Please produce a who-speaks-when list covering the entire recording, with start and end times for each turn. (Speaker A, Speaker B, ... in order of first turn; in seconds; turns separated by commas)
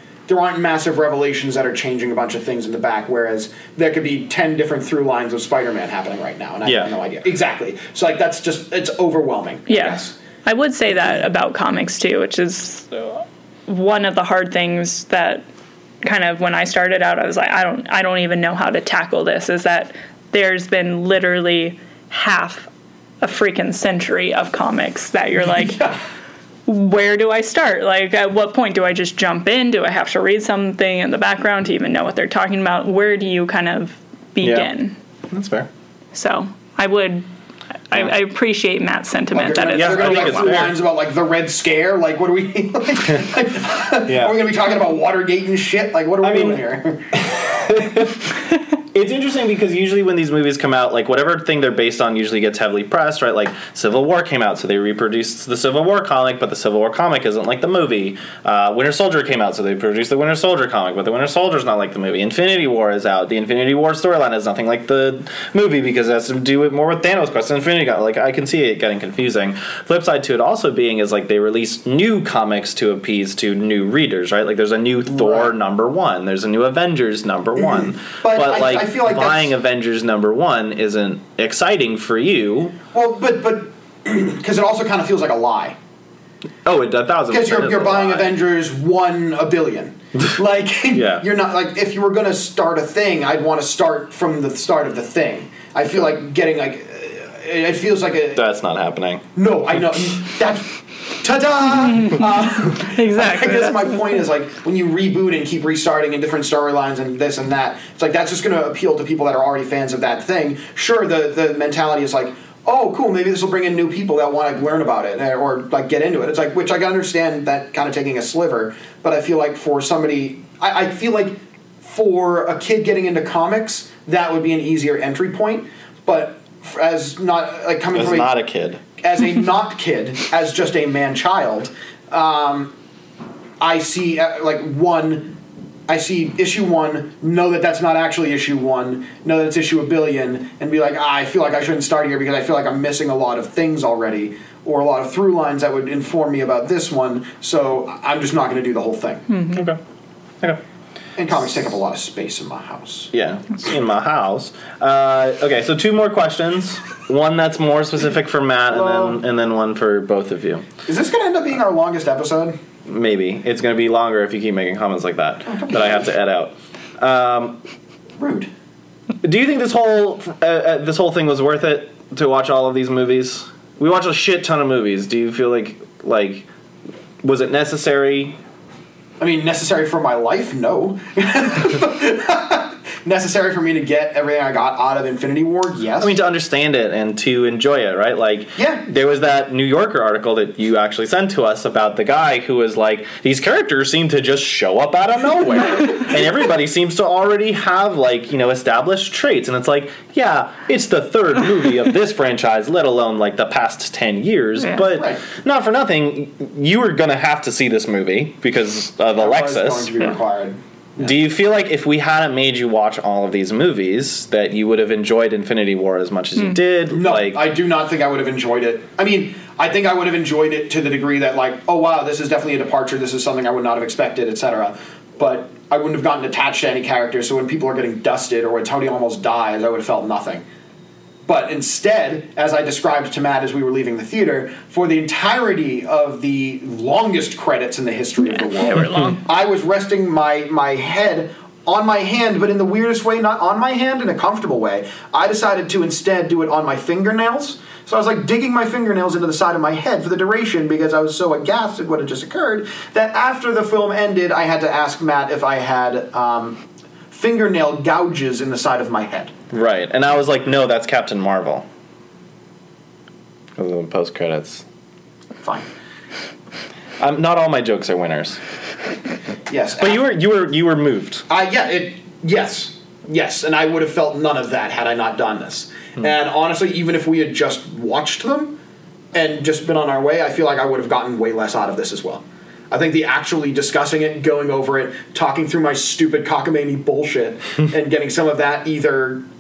Speaker A: 0.3-10.2, Speaker B: 9.7-15.4, Speaker B: 16.0-22.7, Speaker B: 23.2-25.9, Speaker B: 26.7-35.0, Speaker C: 34.4-34.7, Speaker C: 35.3-35.7, Speaker B: 36.1-37.3, Speaker B: 37.9-40.6, Speaker A: 39.3-47.3, Speaker C: 39.8-40.8, Speaker C: 44.1-44.4, Speaker C: 46.2-46.6, Speaker C: 47.2-48.3, Speaker C: 48.9-82.8, Speaker A: 75.1-75.5, Speaker A: 77.8-79.5, Speaker A: 82.9-85.8, Speaker C: 86.7-88.3, Speaker A: 87.3-98.4, Speaker C: 90.9-91.2, Speaker C: 98.3-99.2, Speaker A: 99.4-100.7, Speaker A: 101.2-128.4, Speaker B: 102.0-104.2, Speaker C: 127.9-128.8, Speaker A: 129.0-132.8, Speaker A: 133.6-135.4, Speaker A: 135.9-149.3, Speaker B: 149.3-149.6, Speaker C: 149.5-149.8, Speaker A: 151.2-153.1, Speaker C: 153.1-160.7, Speaker A: 158.7-159.2, Speaker A: 160.9-162.6, Speaker C: 162.9-167.6, Speaker A: 165.5-166.1, Speaker A: 168.2-168.5, Speaker C: 169.2-176.5, Speaker C: 177.2-178.4, Speaker A: 179.2-186.2, Speaker C: 186.0-209.9, Speaker A: 188.6-188.8, Speaker A: 204.9-205.2, Speaker A: 209.2-211.2, Speaker C: 211.0-217.5, Speaker A: 216.9-230.4, Speaker A: 231.3-259.3, Speaker B: 238.2-239.2, Speaker C: 259.5-261.7, Speaker C: 263.6-264.6, Speaker A: 265.4-265.7, Speaker C: 267.0-268.4, Speaker A: 269.5-270.0, Speaker C: 269.8-271.2, Speaker A: 271.3-278.6, Speaker A: 279.1-289.3